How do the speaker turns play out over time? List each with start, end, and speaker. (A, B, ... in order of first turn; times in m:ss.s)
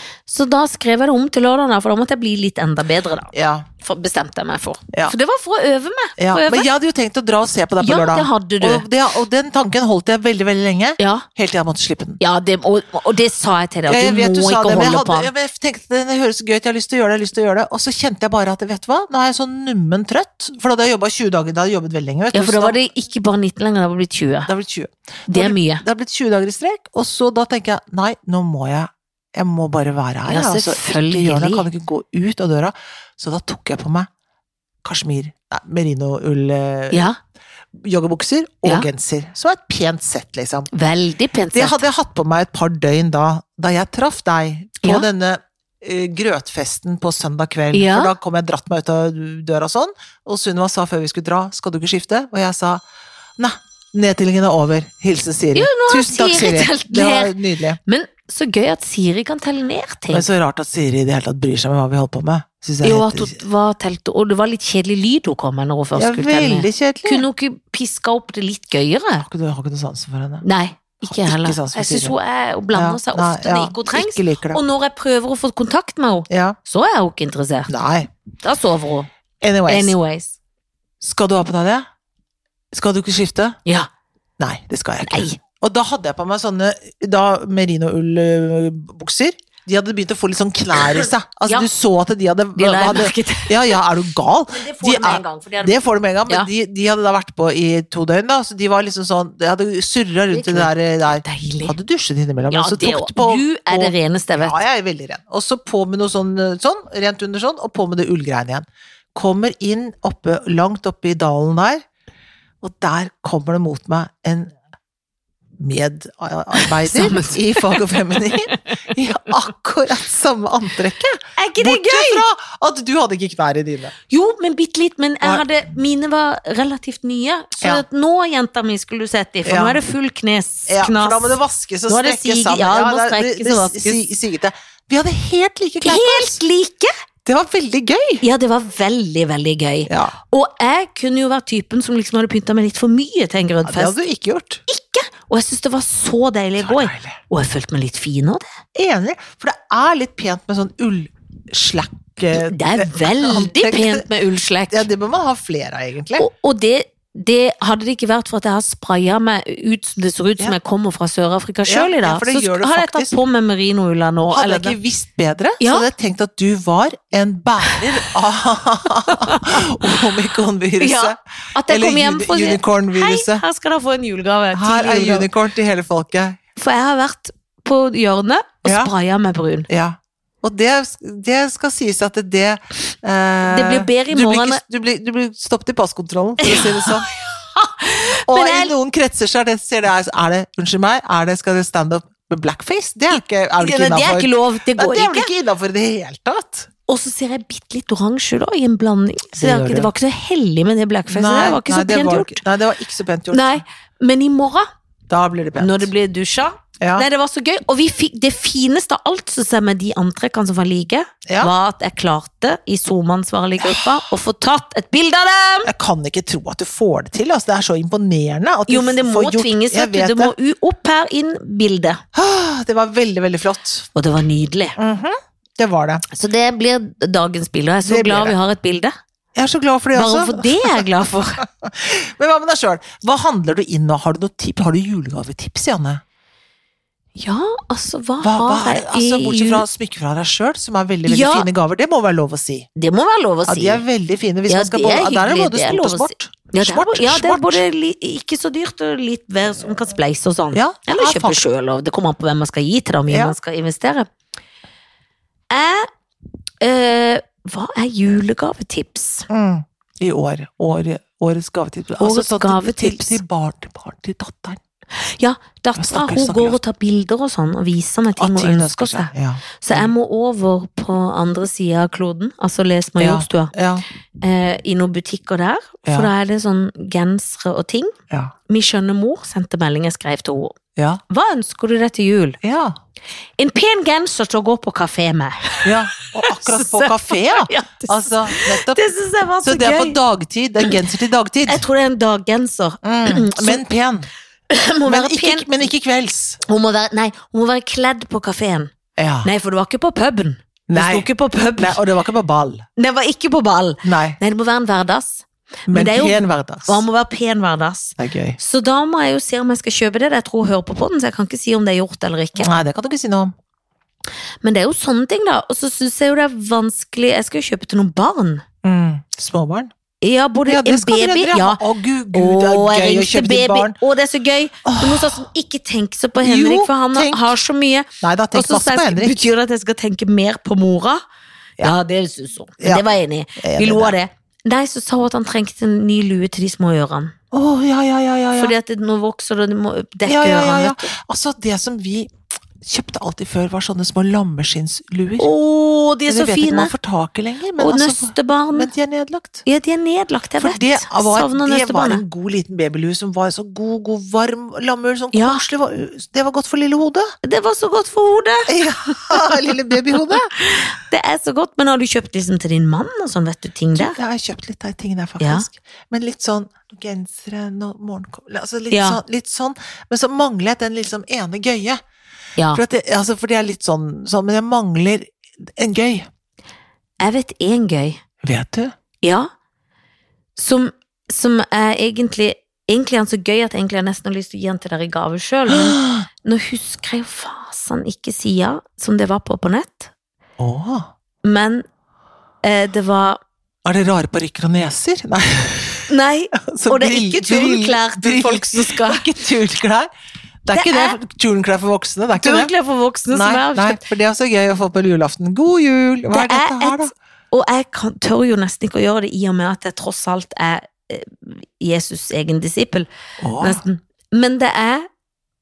0:00.3-0:06.7 A
0:03.3-0:03.6 B
0:06.2-0:12.2 B
0:07.8-0:08.8 A
0:11.0-0:11.2 A
0:12.2-0:15.3 A
0:13.9-0:22.8 B
0:22.3-0:24.5 A
0:24.5-0:34.1 B
0:25.3-0:25.8 A
0:30.2-0:31.6 A
0:34.8-0:37.1 B
0:36.9-0:37.2 A
0:37.7-0:40.7 B
0:40.7-0:41.8 A
0:41.5-0:52.8 B
0:47.7-0:48.1 A
0:53.4-0:57.8 B
0:55.5-1:00.3 A
1:00.1-1:03.4 B
1:02.8-1:09.2 A
1:05.9-1:07.2 B
1:09.2-1:10.4 B
1:10.4-1:17.7 A
1:11.0-1:12.1 B
1:12.7-1:14.6 B
1:16.3-1:16.6 B
1:17.7-1:18.1 B
1:18.4-1:19.1 A
1:19.4-1:19.9 B
1:19.7-1:20.4 A
1:21.0-1:21.8 B
1:22.7-1:23.6 B
1:24.4-1:51.8 B
1:25.0-1:25.4 A
1:30.8-1:31.7 A
1:32.6-1:33.8 A
1:34.5-1:35.8 A
1:40.3-1:41.8 A
1:42.5-1:44.6 A
1:52.6-1:54.5 B
1:55.6-2:03.9 B
1:56.6-1:57.9 A
2:01.4-2:02.2 A
2:04.1-2:14.0 A
2:09.4-2:09.8 B
2:10.7-2:16.4 B
2:15.8-2:16.9 A
2:17.2-2:18.2 B
2:18.2-2:23.9 A
2:19.9-2:20.1 B
2:23.6-2:24.6 B
2:24.7-2:28.6 A
2:26.6-2:27.2 B
2:28.7-2:34.0 B
2:32.3-2:34.9 A
2:34.7-2:36.3 B
2:36.2-2:44.8 A
2:41.6-2:43.2 B
2:44.3-2:53.4 B
2:45.6-2:45.9 A
2:49.1-2:49.9 A
2:50.8-2:55.3 A
2:54.5-2:56.4 B
2:56.6-2:59.7 A
2:58.6-2:58.9 B
2:59.7-3:07.1 B
3:03.4-3:04.6 A
3:06.4-3:08.7 A
3:08.3-3:16.7 B
3:13.1-3:15.3 A
3:16.9-3:22.4 A
3:19.3-3:19.9 B
3:21.1-3:23.6 B
3:23.3-3:24.7 A
3:25.1-3:25.9 B
3:25.6-3:35.7 A
3:26.8-3:27.0 B
3:31.2-3:31.5 B
3:33.6-3:34.0 B
3:35.6-3:40.3 B
3:38.7-3:42.0 A
3:42.1-3:43.9 B
3:43.9-3:44.8 A
3:44.8-3:46.0 B
3:46.1-3:48.9 A
3:47.8-3:48.4 B
3:49.3-3:50.8 B
3:49.9-3:51.4 A
3:51.4-3:56.0 B
3:57.2-3:59.6 A
3:58.2-4:02.7 B
4:01.1-4:01.5 A
4:02.8-4:03.8 A
4:03.4-4:07.6 B
4:04.5-4:14.1 A
4:10.5-4:11.4 B
4:13.1-4:13.4 B
4:15.5-4:15.9 A
4:16.6-4:19.3 A
4:19.3-4:24.6 B
4:22.0-4:23.2 A
4:25.0-4:33.5 A
4:25.8-4:26.6 B
4:28.2-4:29.9 B
4:33.0-4:33.8 B
4:34.2-4:37.9 A
4:35.8-4:36.1 B
4:38.5-4:42.4 A
4:40.8-4:41.0 B
4:42.4-4:42.8 B
4:43.4-4:50.0 A
4:45.6-4:48.8 B
4:49.4-4:51.6 B
4:51.5-4:53.6 A
4:52.8-4:54.1 B
4:54.5-4:55.5 A
4:54.8-4:56.4 B
4:56.4-4:58.7 A
4:59.0-4:59.3 B
4:59.2-5:01.8 A
5:00.7-5:02.6 B
5:02.8-5:12.6 A
5:03.8-5:04.2 B
5:05.7-5:06.8 B
5:08.0-5:08.4 B
5:12.4-5:13.3 B
5:14.4-5:18.4 A
5:18.6-5:19.7 B
5:20.0-5:21.6 A
5:20.4-5:23.8 B
5:22.1-5:31.0 A
5:24.6-5:25.2 B
5:26.2-5:27.3 B
5:28.0-5:29.2 B
5:31.6-5:37.1 A
5:33.4-5:33.9 B
5:37.3-5:38.5 B
5:38.4-5:40.9 A
5:40.0-5:45.3 B
5:45.2-5:46.7 A
5:46.1-5:49.4 B
5:47.6-5:48.7 A
5:49.4-5:52.0 A
5:50.4-5:57.1 B
5:55.1-5:55.4 A
5:57.2-5:59.5 A
5:58.5-6:00.3 B
6:00.1-6:04.0 A
6:03.7-6:11.8 B
6:05.2-6:05.4 A
6:08.7-6:09.0 A
6:12.4-6:12.6 A
6:12.5-6:16.1 B
6:17.0-6:18.0 A
6:18.2-6:18.7 B
6:19.0-6:19.3 A
6:20.4-6:29.9 A
6:25.5-6:26.1 B
6:30.4-6:30.9 B
6:31.2-6:31.6 A
6:32.4-6:33.2 A
6:33.6-6:35.9 B
6:35.9-6:39.0 A
6:36.4-6:39.9 B
6:40.4-6:42.5 B
6:40.5-6:41.0 A
6:42.2-6:43.8 A
6:43.1-6:46.9 B
6:46.1-6:52.9 A
6:53.2-6:53.6 B
6:53.4-6:54.9 A